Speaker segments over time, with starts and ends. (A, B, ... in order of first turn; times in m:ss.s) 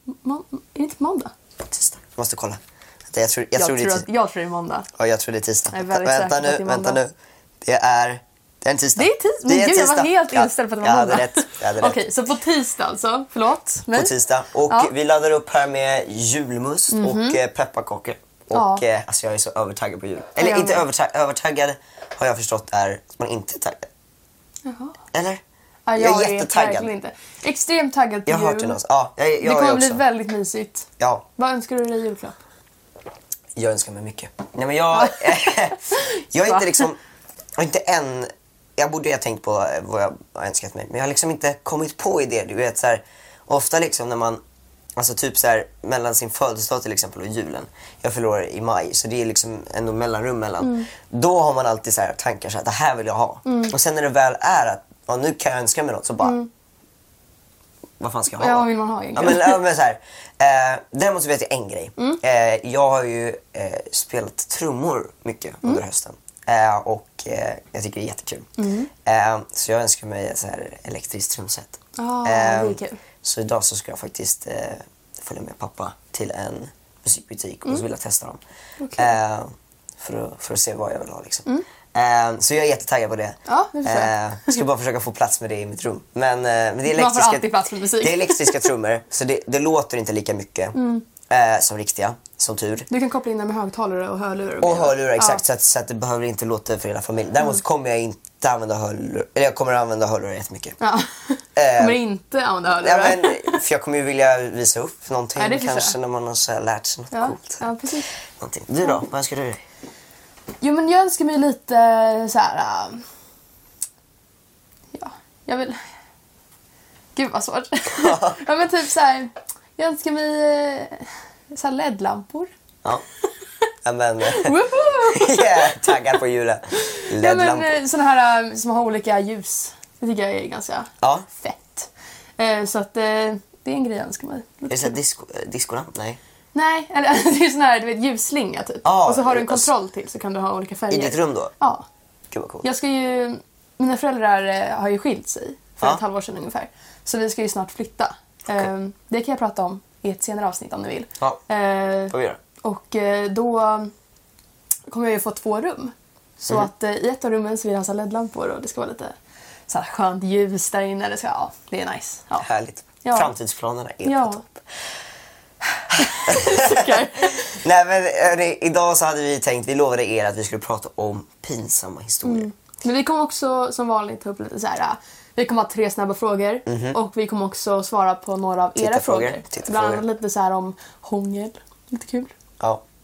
0:00.2-0:01.3 A
0:01.6-0:04.1 B
0:03.6-0:04.9 A
0:05.0-0:12.0 B
0:05.7-0:07.0 A
0:09.0-0:14.1 A
0:13.9-0:23.9 B
0:16.9-0:17.4 A
0:18.5-0:18.8 A
0:20.4-0:20.8 A
0:24.6-0:25.0 A
0:25.1-0:25.4 B
0:25.9-0:28.8 A
0:26.0-0:26.9 B
0:28.2-0:30.0 B
0:29.4-0:32.4 A
0:33.6-0:37.0 B
0:34.9-0:36.9 A
0:37.6-0:44.4 B
0:45.0-0:56.4 B
0:50.6-0:50.9 A
0:53.4-0:53.7 A
0:56.2-0:56.5 A
0:58.0-1:18.4 B
0:58.4-0:59.6 A
1:08.6-1:08.9 A
1:12.0-1:13.0 A
1:18.8-1:19.2 A
1:19.0-1:30.8 B
1:23.5-1:24.6 A
1:26.9-1:28.7 A
1:30.7-1:31.0 A
1:31.3-1:32.9 B
1:32.9-1:35.4 A
1:34.6-1:40.8 B
1:40.8-1:43.6 A
1:41.6-1:42.0 B
1:42.8-1:47.6 B
1:45.4-1:46.0 A
1:47.1-1:48.1 A
1:48.4-1:49.6 B
1:50.6-1:53.0 A
1:54.9-1:55.8 A
1:57.2-2:02.5 A
1:58.0-1:58.4 B
2:03.8-2:04.5 B
2:04.2-2:06.2 A
2:05.1-2:07.8 B
2:06.8-2:14.9 A
2:11.0-2:11.3 B
2:14.7-2:16.2 B
2:16.5-2:21.8 A
2:18.8-2:19.7 B
2:20.9-2:21.5 B
2:22.3-2:22.7 B
2:22.6-2:33.9 A
2:32.1-2:32.4 B
2:34.9-2:39.1 A
2:39.7-2:42.5 A
2:42.4-2:44.6 B
2:43.0-2:43.3 A
2:44.0-2:44.4 A
2:45.8-2:47.6 A
2:46.2-2:52.5 B
2:52.2-3:02.3 A
2:56.7-2:57.0 B
2:58.8-3:00.0 B